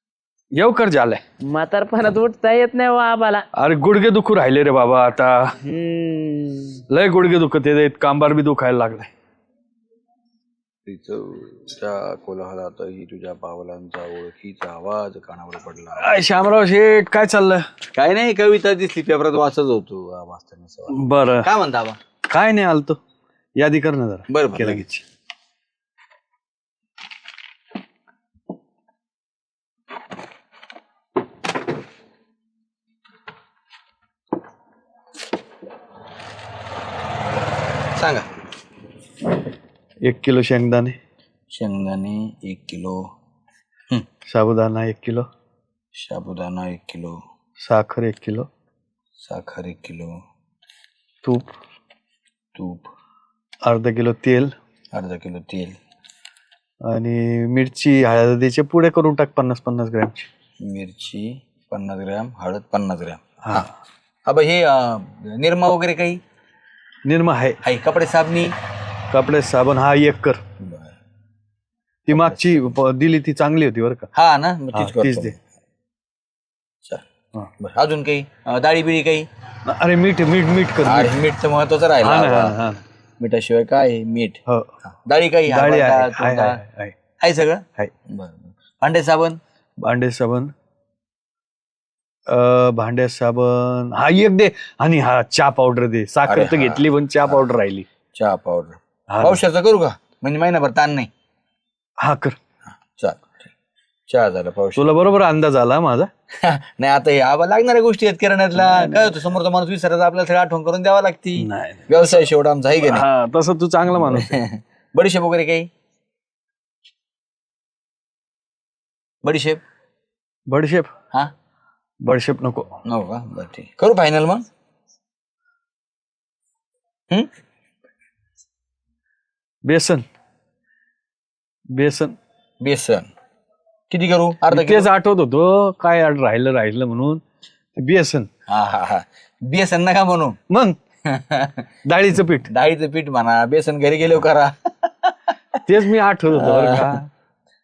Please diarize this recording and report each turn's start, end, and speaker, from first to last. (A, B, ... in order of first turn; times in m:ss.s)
0:00.5-0:01.2 A
0:01.4-0:03.5 B
0:03.6-0:05.5 A
0:05.6-0:06.8 B
0:06.9-0:09.1 A
0:10.8-0:16.2 C
0:16.0-0:17.6 A
0:17.9-0:22.0 C
0:20.9-0:21.5 A
0:22.3-0:23.0 A
0:23.6-0:25.0 A
0:24.3-0:24.8 C
0:37.9-0:38.2 C
0:40.0-0:41.0 A
0:41.5-0:43.1 C
0:44.3-0:45.3 A
0:45.9-0:47.2 C
0:47.6-0:48.5 A
0:49.2-0:50.2 C
0:51.2-0:51.5 A
0:52.6-0:52.9 C
0:53.6-0:54.5 A
0:54.9-0:55.8 C
0:56.8-1:00.3 A
1:00.6-1:03.7 C
1:03.4-1:03.7 A
1:04.2-1:06.2 C
1:07.0-1:07.6 A
1:07.6-1:08.5 C
1:09.1-1:10.4 A
1:10.6-1:10.9 C
1:12.0-1:14.1 A
1:12.1-1:12.5 C
1:14.1-1:15.4 C
1:14.7-1:15.3 A
1:17.6-1:19.3 C
1:19.7-1:21.1 A
1:20.8-1:22.6 C
1:22.0-1:22.8 A
1:23.2-1:26.6 C
1:25.5-1:27.0 A
1:27.2-1:29.4 C
1:29.8-1:30.5 A
1:32.3-1:37.8 A
1:36.3-1:37.4 C
1:38.1-1:41.1 C
1:39.1-1:39.4 A
1:42.0-1:42.4 A
1:42.9-1:43.5 C
1:44.1-1:44.9 C
1:44.8-1:46.1 A
1:46.4-1:53.0 C
1:51.4-1:51.9 A
1:52.9-1:54.3 A
1:53.9-1:55.7 C
1:59.2-1:59.6 C
2:00.5-2:00.9 A
2:02.0-2:02.8 A
2:02.8-2:04.4 C
2:09.6-2:10.0 A
2:11.7-2:12.2 A
2:12.6-2:13.1 C
2:13.9-2:14.9 C
2:14.5-2:17.2 A
2:17.8-2:18.3 A
2:18.5-2:20.4 C
2:20.5-2:20.8 A
2:21.0-2:21.7 C
2:21.9-2:22.5 A
2:22.5-2:25.3 C
2:25.7-2:27.0 A
2:26.4-2:27.0 C